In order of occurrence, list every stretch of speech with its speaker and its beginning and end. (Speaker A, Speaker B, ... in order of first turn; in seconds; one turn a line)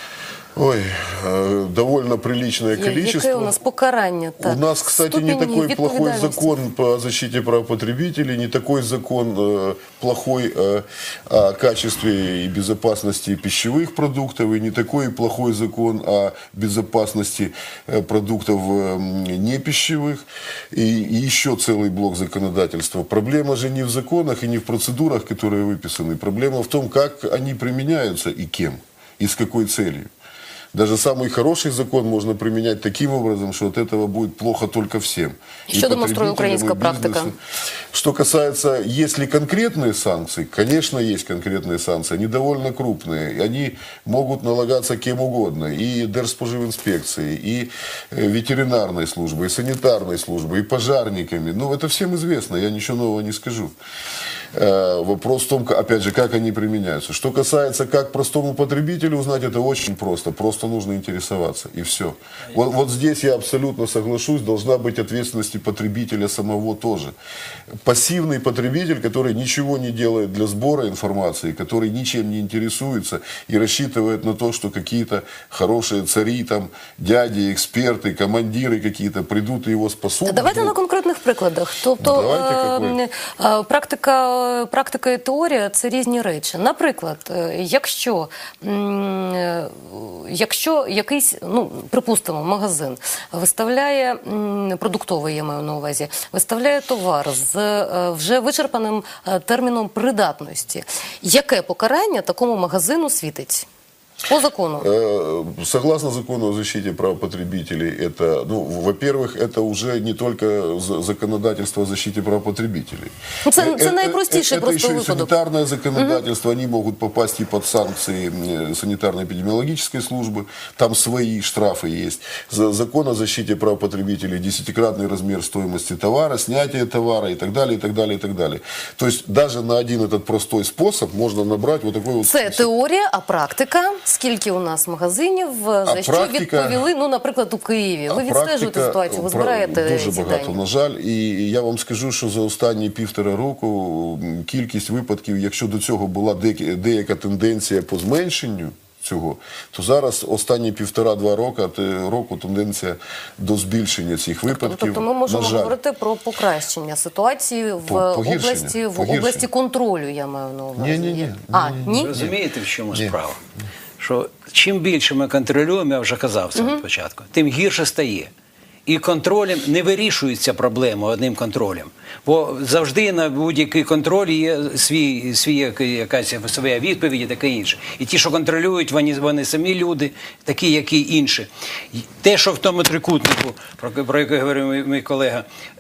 Speaker A: 0.6-3.5
Speaker B: 2.8-6.5
Speaker A: 4.4-30.1
Speaker A: 30.7-37.4
Speaker B: 35.7-37.3
Speaker A: 37.9-53.7
Speaker A: 54.5-67.1
Speaker A: 67.8-80.7
Speaker B: 80.2-103.7
Speaker A: 82.0-83.0
Speaker B: 104.3-104.9
Speaker A: 104.8-132.7
Speaker B: 113.4-115.3
Speaker B: 132.3-140.5
Speaker A: 135.8-136.8
Speaker A: 138.1-155.7
Speaker B: 154.5-162.2
Speaker A: 157.8-159.5
Speaker A: 160.8-162.3
Speaker C: 161.8-163.4
Speaker C: 164.0-168.3
Speaker B: 166.6-166.8
Speaker C: 168.8-185.4